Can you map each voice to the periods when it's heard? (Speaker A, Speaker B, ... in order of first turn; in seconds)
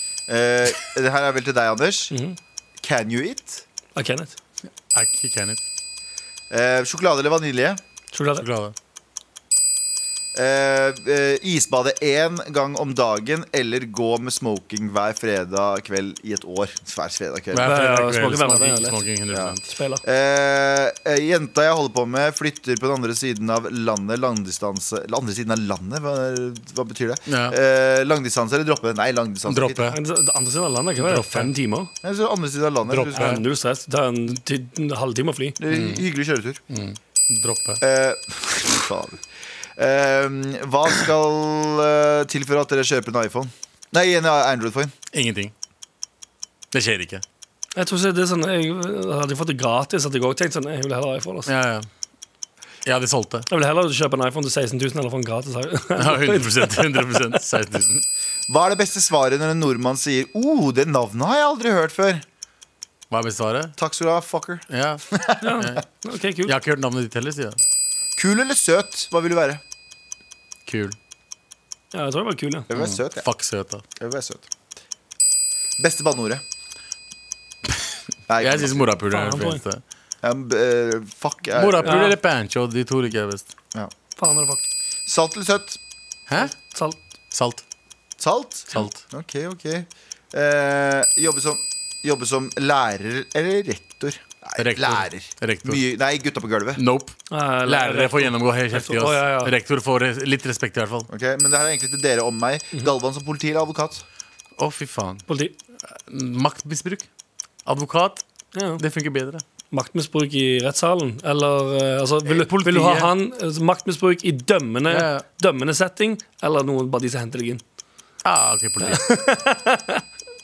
Speaker A: 0.3-2.1, 2.8-3.6, 6.5-7.8, 10.3-17.7, 19.3-29.9, 32.0-33.3, 35.6-36.6, 37.8-39.2, 39.8-44.9, 58.5-62.2, 63.8-65.7, 68.2-69.6, 72.7-73.2, 74.0-74.5, 75.8-76.4, 78.3-78.9, 80.2-82.0, 85.0-85.8, 88.2-96.8, 101.1-104.0
Speaker B: 2.1-2.4, 3.9-4.3, 8.1-8.4, 17.6-19.0, 19.6-20.0, 29.9-31.9, 32.9-35.6, 47.7-51.5, 53.5-56.8, 65.4-66.5, 71.9-72.7, 79.1-79.6, 81.8-82.2, 84.2-84.7, 86.3-87.0, 97.3-99.5, 105.3-105.5, 108.5-108.8, 109.7-117.6, 118.8-120.0
Speaker C: 4.9-5.6, 8.4-8.7, 17.5-19.6, 27.3-27.6, 29.5-29.9, 31.0-31.5, 32.9-33.4, 35.7-36.0, 36.7-37.8, 45.1-45.5, 46.7-47.2, 51.5-51.9, 52.9-53.5, 56.0-58.0, 63.1-63.8, 64.7-65.0, 65.6-65.8, 66.4-67.6, 70.7-71.0, 72.8-73.8, 78.4-79.8, 81.5-83.5, 87.3-87.6, 88.7-89.0, 94.5-95.8, 96.8-101.1, 104.6-105.2, 105.9-107.1, 107.7-108.2, 108.8-109.4, 112.2-113.1, 114.9-115.2, 118.2-119.0